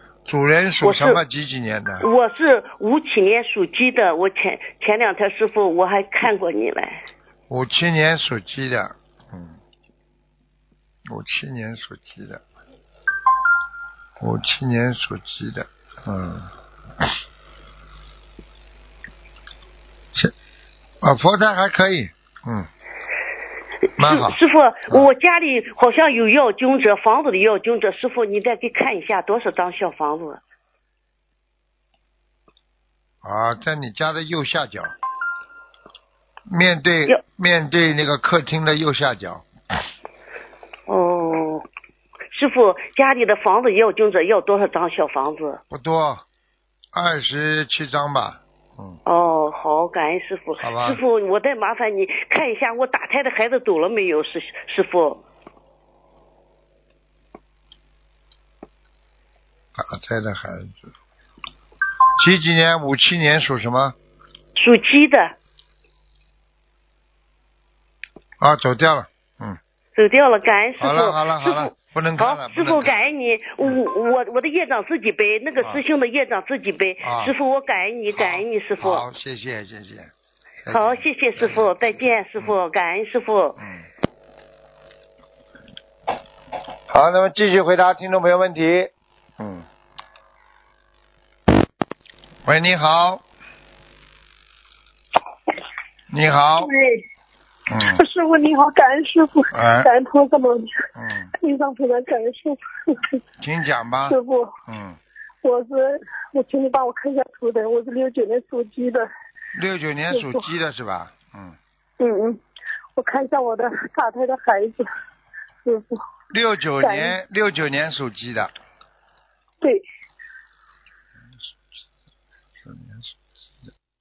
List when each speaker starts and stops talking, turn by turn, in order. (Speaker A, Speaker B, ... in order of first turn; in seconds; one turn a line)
Speaker A: 0.3-2.1
Speaker B: 0.8-1.2
Speaker B: 2.0-7.0
Speaker A: 7.5-9.6
Speaker A: 11.1-12.4
Speaker A: 14.2-16.5
Speaker A: 21.0-22.7
Speaker A: 24.0-24.4
Speaker B: 24.0-30.4
Speaker A: 33.2-34.9
Speaker A: 36.5-39.5
Speaker B: 40.9-41.7
Speaker B: 42.3-45.6
Speaker A: 45.7-46.2
Speaker A: 46.9-49.0
Speaker B: 49.1-55.2
Speaker A: 50.6-51.0
Speaker A: 59.8-60.9
Speaker A: 62.2-64.0
Speaker B: 64.6-65.3
Speaker A: 68.4-69.6
Speaker B: 70.0-79.0
Speaker A: 70.8-73.1
Speaker A: 77.0-77.3
Speaker A: 78.2-80.1
Speaker A: 80.6-82.6
Speaker B: 80.7-83.6
Speaker A: 83.6-83.8
Speaker A: 86.9-89.7
Speaker A: 92.5-93.2
Speaker A: 96.1-96.7
Speaker C: 96.6-97.0
Speaker A: 97.7-98.0
Speaker C: 97.8-103.2
Speaker A: 99.5-99.9
Speaker A: 101.0-101.3
Speaker A: 103.4-105.0
Speaker C: 104.1-104.5
Speaker C: 105.4-109.1
Speaker A: 109.5-111.6
Speaker C: 110.1-110.5
Speaker C: 112.0-112.4
Speaker C: 113.0-114.9
Speaker C: 115.7-116.0
Speaker A: 116.3-118.5
Speaker C: 116.8-117.2
Speaker A: 122.6-123.1